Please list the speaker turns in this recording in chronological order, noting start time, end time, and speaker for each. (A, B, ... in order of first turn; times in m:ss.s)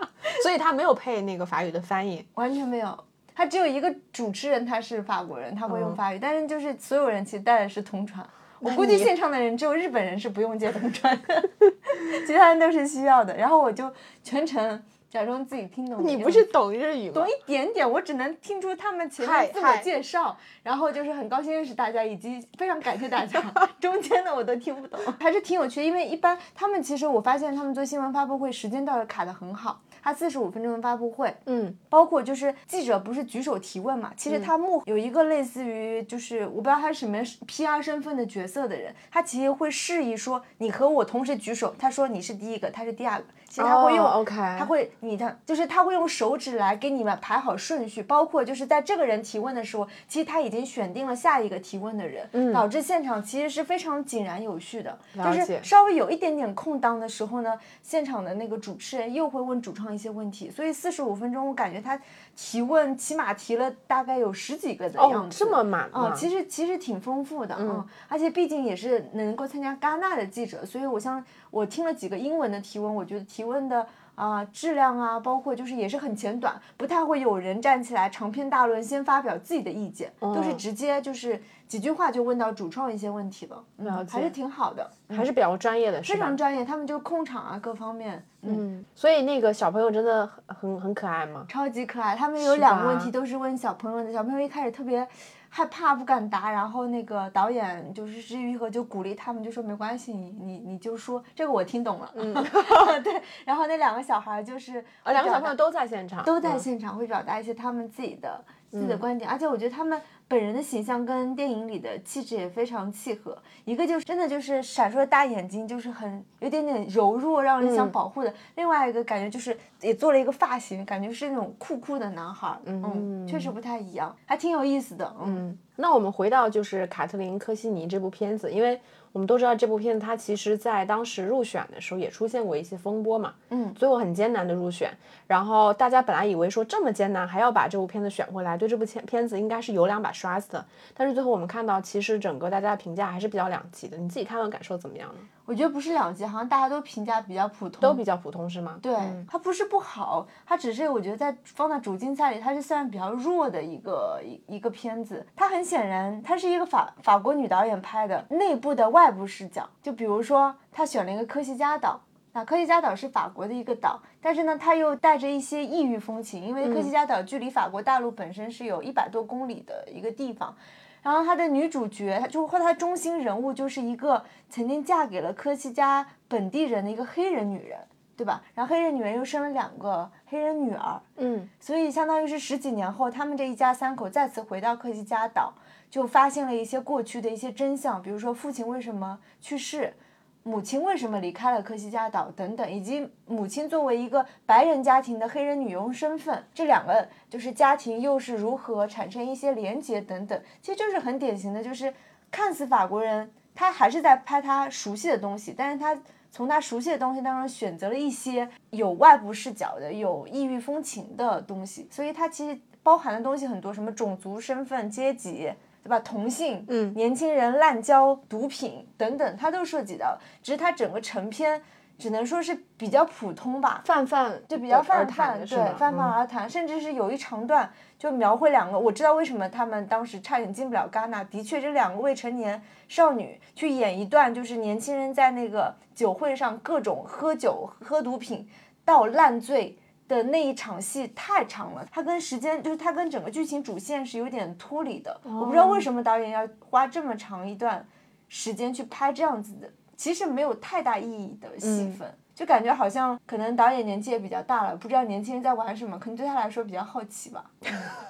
0:00.2-0:02.2 A
0:02.3-0:16.5 B
0:05.7-0:06.0 A
0:08.6-0:09.1 A
0:16.0-0:17.3 A
0:17.1-1:25.3 B
0:19.2-0:19.9 A
0:31.4-0:31.8 A
0:43.6-0:44.7 A
0:52.3-0:52.6 A
0:55.1-0:55.7 A
1:05.0-1:06.3 A
1:07.6-1:07.8 A
1:20.2-1:20.6 A
1:23.8-1:24.3 A
1:25.1-1:26.4 A
1:26.0-1:28.6 B
1:28.4-1:31.5 A
1:31.5-1:45.5 B
1:32.4-1:33.1 A
1:42.1-1:42.9 A
1:45.0-1:46.6 A
1:46.2-2:05.4 B
1:48.7-1:49.0 A
1:57.6-1:57.9 A
2:02.6-2:03.5 A
2:05.2-2:25.3 A
2:13.5-2:13.8 B
2:25.4-2:28.0 B
2:27.8-2:29.2 A
2:28.8-3:01.0 B
2:46.6-2:46.9 A
3:01.2-3:01.5 A
3:01.6-3:43.8 B
3:36.7-3:37.0 A
3:43.8-3:46.1 A
3:44.5-4:17.7 B
4:05.2-4:05.9 A
4:11.6-4:12.0 A